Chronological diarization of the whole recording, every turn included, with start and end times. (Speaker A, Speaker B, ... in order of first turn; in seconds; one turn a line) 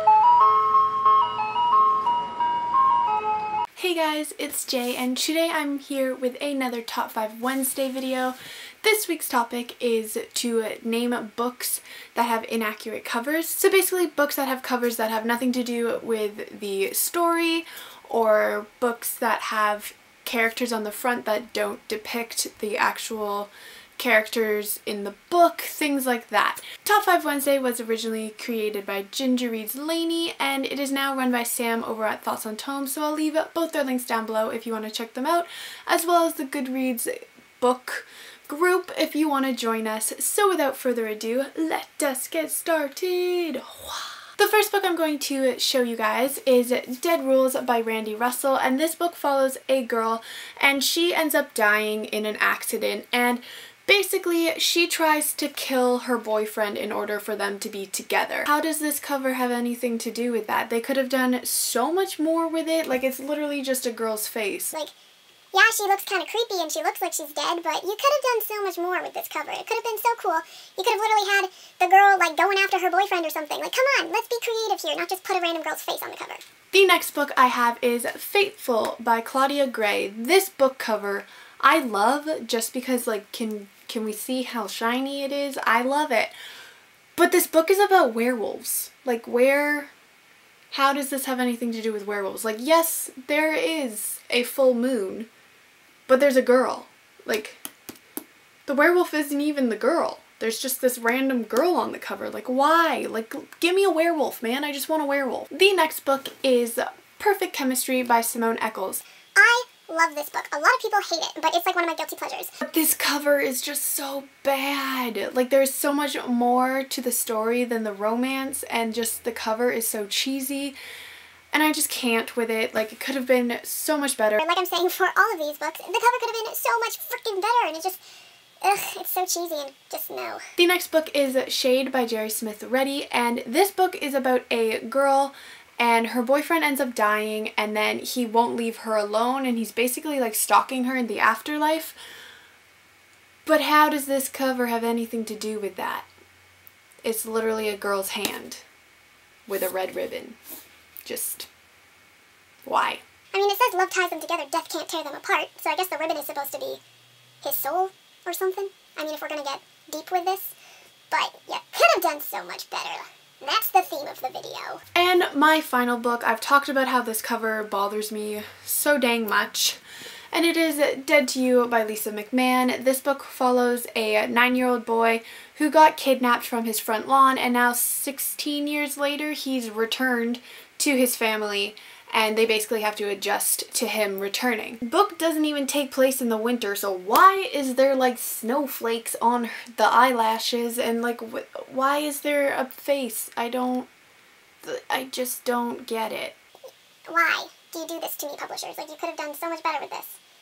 Speaker A: 3.8-64.7
Speaker B: 65.5-76.4
Speaker A: 76.7-86.3
Speaker A: 87.2-89.9
Speaker A: 90.7-95.3
Speaker A: 96.1-97.6
Speaker A: 98.7-109.0
Speaker B: 109.3-112.5
Speaker A: 112.6-120.8
Speaker A: 121.5-124.4
Speaker B: 124.4-128.0
Speaker B: 128.6-130.4
Speaker A: 130.6-142.0
Speaker A: 143.4-146.1
Speaker A: 147.0-148.6
Speaker A: 149.5-150.4
Speaker A: 151.0-151.5
Speaker A: 152.6-153.0
Speaker B: 153.3-156.8
Speaker B: 157.4-160.5
Speaker B: 161.1-164.8
Speaker A: 164.9-169.8
Speaker A: 170.3-193.9
Speaker A: 194.6-196.3
Speaker B: 197.1-200.2